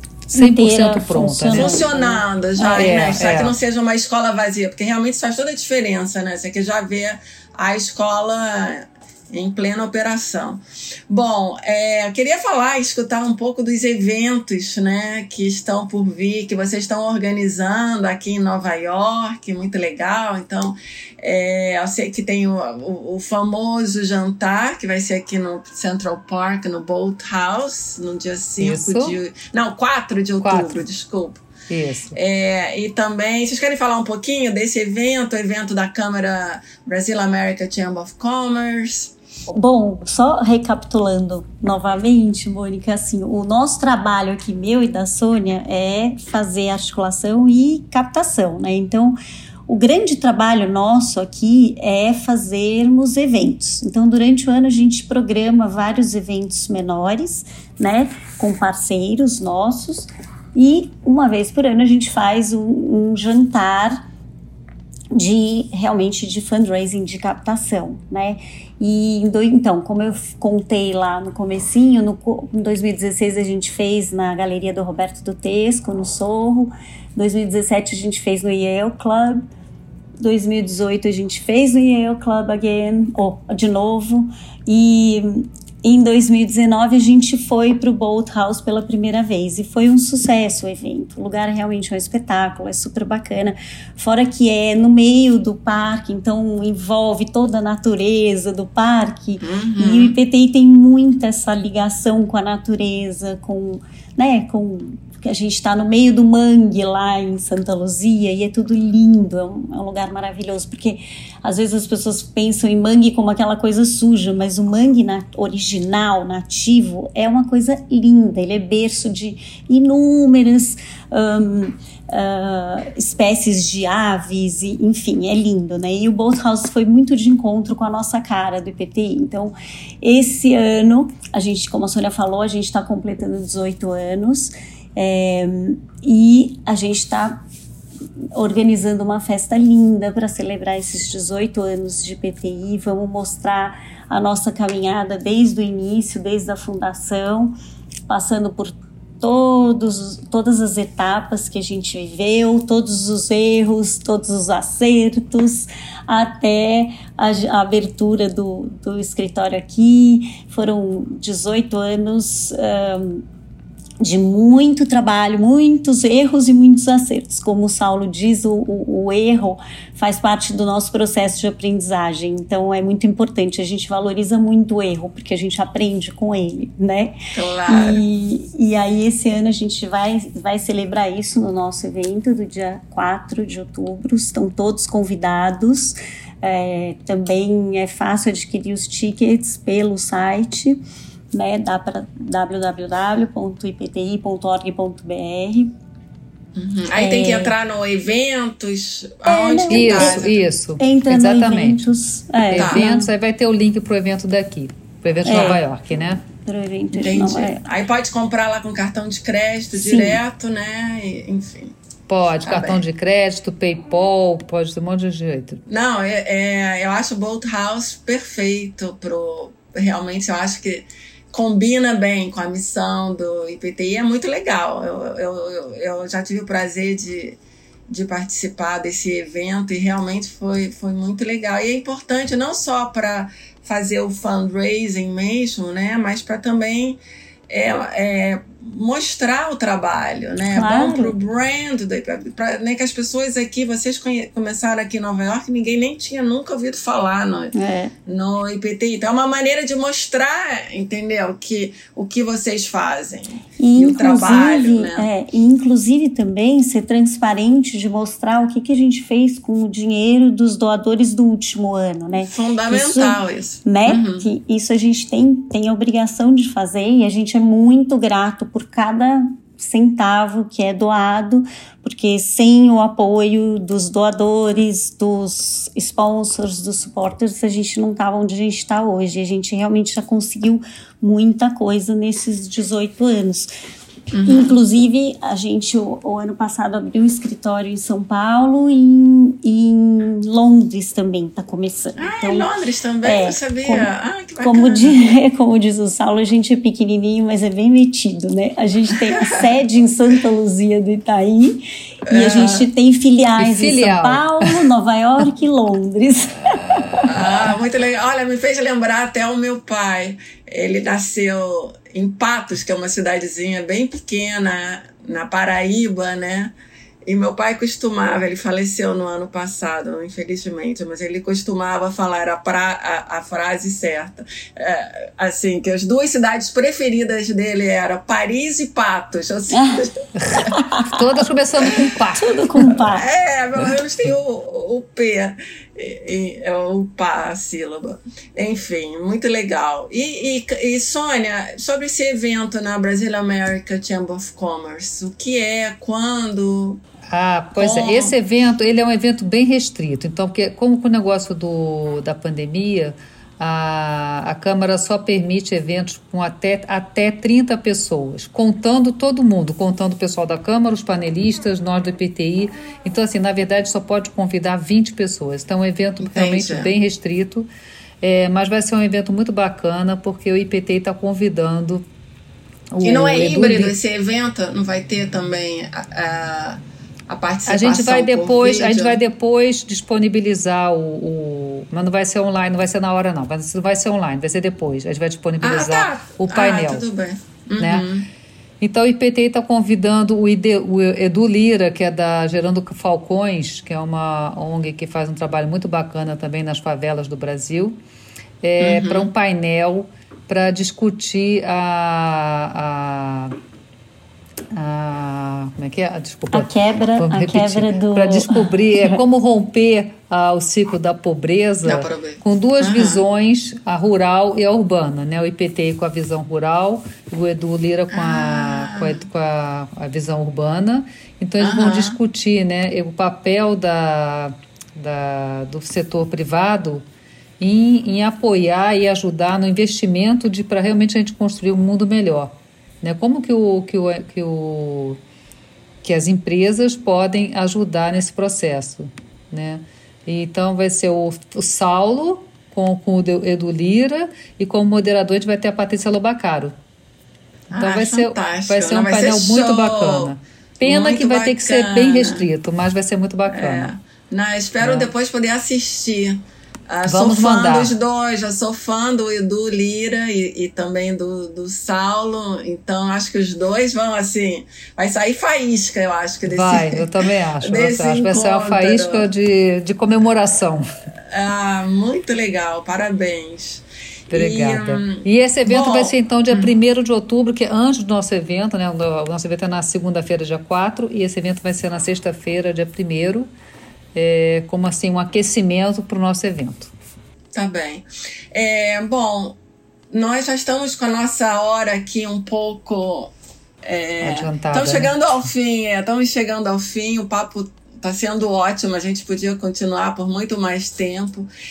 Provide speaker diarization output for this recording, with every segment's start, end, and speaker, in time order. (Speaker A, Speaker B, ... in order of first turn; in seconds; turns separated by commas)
Speaker A: 0.3-1.8, Speaker B: 0.3-2.9, Speaker C: 1.5-31.4, Speaker A: 2.7-3.6, Speaker A: 28.6-29.2, Speaker A: 30.4-30.8, Speaker A: 31.7-32.2, Speaker C: 32.1-39.1, Speaker B: 39.5-64.0, Speaker B: 65.1-79.4, Speaker B: 80.2-137.4, Speaker C: 99.4-100.1, Speaker B: 138.3-147.5, Speaker B: 148.1-163.2, Speaker B: 164.0-177.2, Speaker C: 177.3-178.0, Speaker B: 177.7-190.8, Speaker B: 191.3-195.7, Speaker C: 196.6-200.4, Speaker B: 197.0-197.5, Speaker B: 199.2-200.2, Speaker A: 199.7-201.8, Speaker B: 200.8-203.1, Speaker A: 202.5-206.2, Speaker C: 202.5-202.8, Speaker B: 205.2-205.6, Speaker B: 206.4-207.6, Speaker C: 206.9-211.7, Speaker B: 209.7-210.2, Speaker A: 212.1-215.6, Speaker C: 212.4-212.8, Speaker C: 215.7-227.4, Speaker C: 227.9-247.5, Speaker B: 240.5-241.1, Speaker B: 247.5-247.9, Speaker C: 248.1-255.1, Speaker B: 253.6-283.5, Speaker C: 262.2-264.3, Speaker C: 284.1-284.6, Speaker B: 284.3-292.5, Speaker C: 292.0-295.0, Speaker B: 293.0-293.9, Speaker B: 294.4-307.1, Speaker C: 302.1-302.7, Speaker A: 303.4-304.6, Speaker C: 307.0-330.5, Speaker B: 329.5-329.8, Speaker A: 330.2-332.5, Speaker B: 330.5-331.0, Speaker B: 332.2-333.1, Speaker C: 332.8-346.8, Speaker A: 347.1-367.5, Speaker C: 347.6-348.1, Speaker C: 366.0-366.7, Speaker A: 368.0-371.8, Speaker A: 372.7-373.7, Speaker C: 372.8-379.0, Speaker A: 377.5-386.8, Speaker C: 385.4-388.1, Speaker A: 387.6-387.9, Speaker A: 388.6-397.8, Speaker A: 398.4-403.4, Speaker C: 398.6-399.1, Speaker A: 404.5-426.8, Speaker B: 406.3-409.0, Speaker C: 411.6-413.0, Speaker C: 417.9-419.0, Speaker C: 421.4-422.0, Speaker A: 427.4-435.0, Speaker A: 435.8-446.5, Speaker C: 447.5-450.1, Speaker A: 447.5-453.7, Speaker C: 450.6-452.2, Speaker C: 453.3-469.1, Speaker A: 454.6-454.9, Speaker A: 456.9-457.7, Speaker A: 466.2-470.6, Speaker C: 471.1-476.5, Speaker A: 474.1-483.3, Speaker A: 483.9-486.7, Speaker C: 487.3-489.4, Speaker C: 489.9-493.1, Speaker C: 493.6-501.3, Speaker A: 494.0-494.9